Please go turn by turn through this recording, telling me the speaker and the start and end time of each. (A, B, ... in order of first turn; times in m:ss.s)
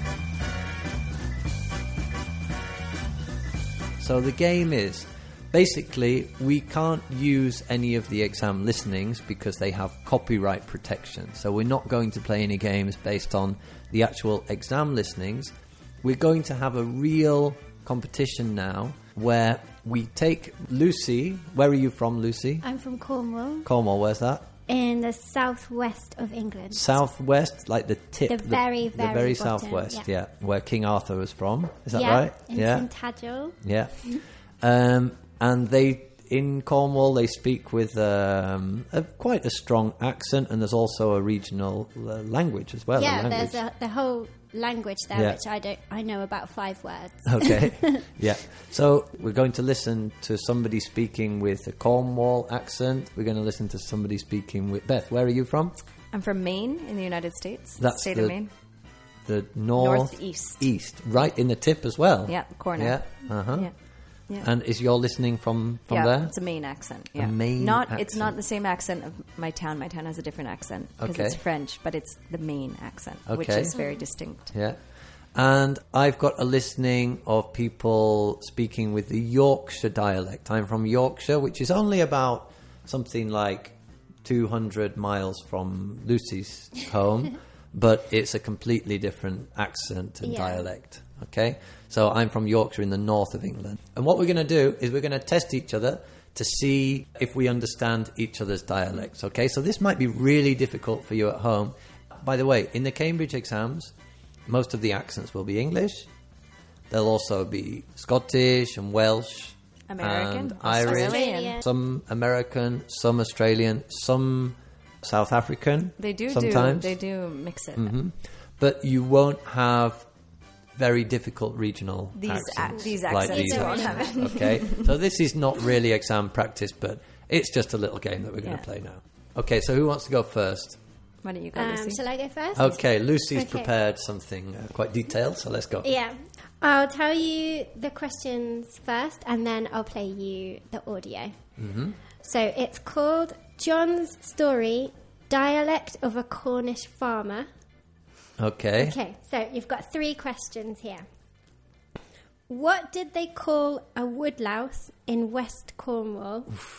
0:04.0-0:22.6 A
0:22.6-0:23.7 B
0:23.6-0:24.5 A
0:24.7-0:27.0 B
0:26.7-0:32.9 A
0:28.3-0:30.1 B
0:31.9-0:33.6 B
0:33.6-0:43.6 A
0:43.0-0:48.0 B
0:45.1-0:45.4 A
0:47.2-0:55.8 A
0:56.1-0:58.5 C
0:57.8-0:58.4 A
0:59.2-1:03.7 A
0:59.8-1:00.6 C
1:02.3-1:03.7 C
1:04.4-1:06.3 A
1:05.9-1:14.5 C
1:07.1-1:08.4 A
1:11.0-1:11.4 A
1:13.3-1:13.7 A
1:13.7-1:14.1 B
1:14.5-1:14.8 A
1:15.4-1:43.9 A
1:30.2-1:30.6 B
1:44.5-1:46.1 A
1:46.9-1:56.9 A
1:49.9-1:51.6 C
1:50.8-1:51.6 B
1:56.0-1:57.9 C
1:57.8-2:00.1 A
2:00.8-2:10.8 A
2:02.1-2:04.9 C
2:02.8-2:04.5 B
2:11.2-2:12.0 C
2:11.6-2:13.7 B
2:12.6-2:15.9 A
2:15.8-2:21.4 B
2:21.6-2:22.0 A
2:22.2-2:27.5 B
2:28.4-2:28.9 A
2:28.8-2:31.1 B
2:32.5-2:36.6 B